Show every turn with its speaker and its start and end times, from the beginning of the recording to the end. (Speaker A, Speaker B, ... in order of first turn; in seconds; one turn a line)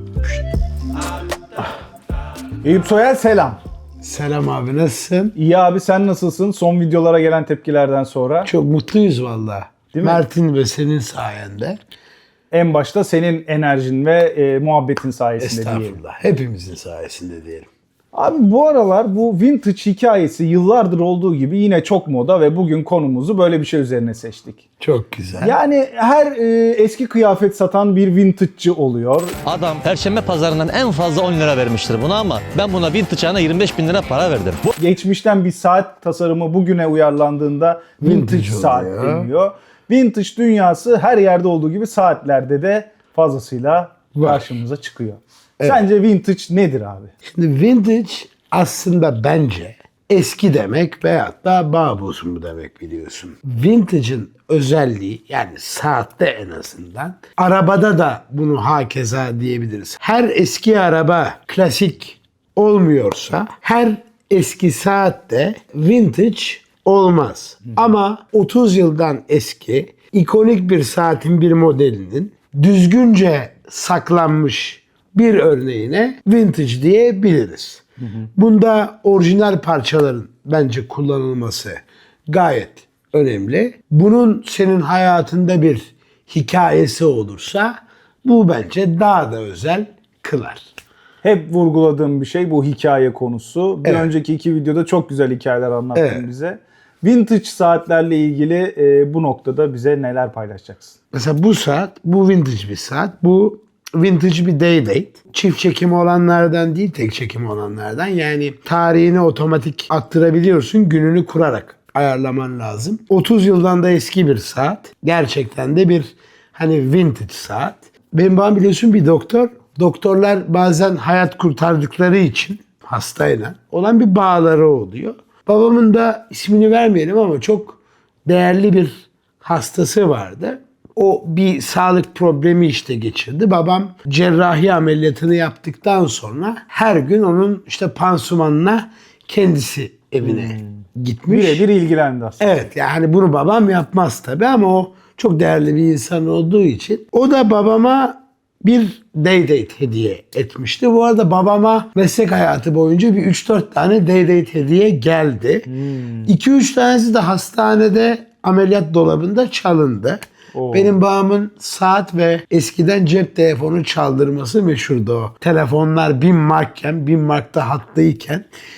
Speaker A: 2.6-3.6
Speaker B: 4.0-5.4
Speaker A: 5.4-8.5
Speaker B: 8.5-11.8
Speaker A: 9.9-10.2
Speaker A: 12.5-16.0
Speaker B: 15.4-17.7
Speaker A: 18.1-24.6
Speaker B: 24.8-25.6
Speaker A: 25.4-29.3
Speaker C: 29.4-34.7
Speaker A: 34.8-47.1
Speaker B: 38.0-39.3
Speaker B: 44.1-44.5
Speaker B: 47.2-77.8
Speaker A: 78.0-78.3
Speaker B: 78.4-90.7
Speaker A: 91.2-101.0
Speaker B: 96.0-96.3
Speaker B: 101.1-141.6
Speaker A: 140.2-142.5
Speaker B: 142.4-155.7
Speaker A: 155.7-156.3
Speaker B: 156.3-160.2
Speaker A: 160.5-161.0
Speaker B: 160.7-168.5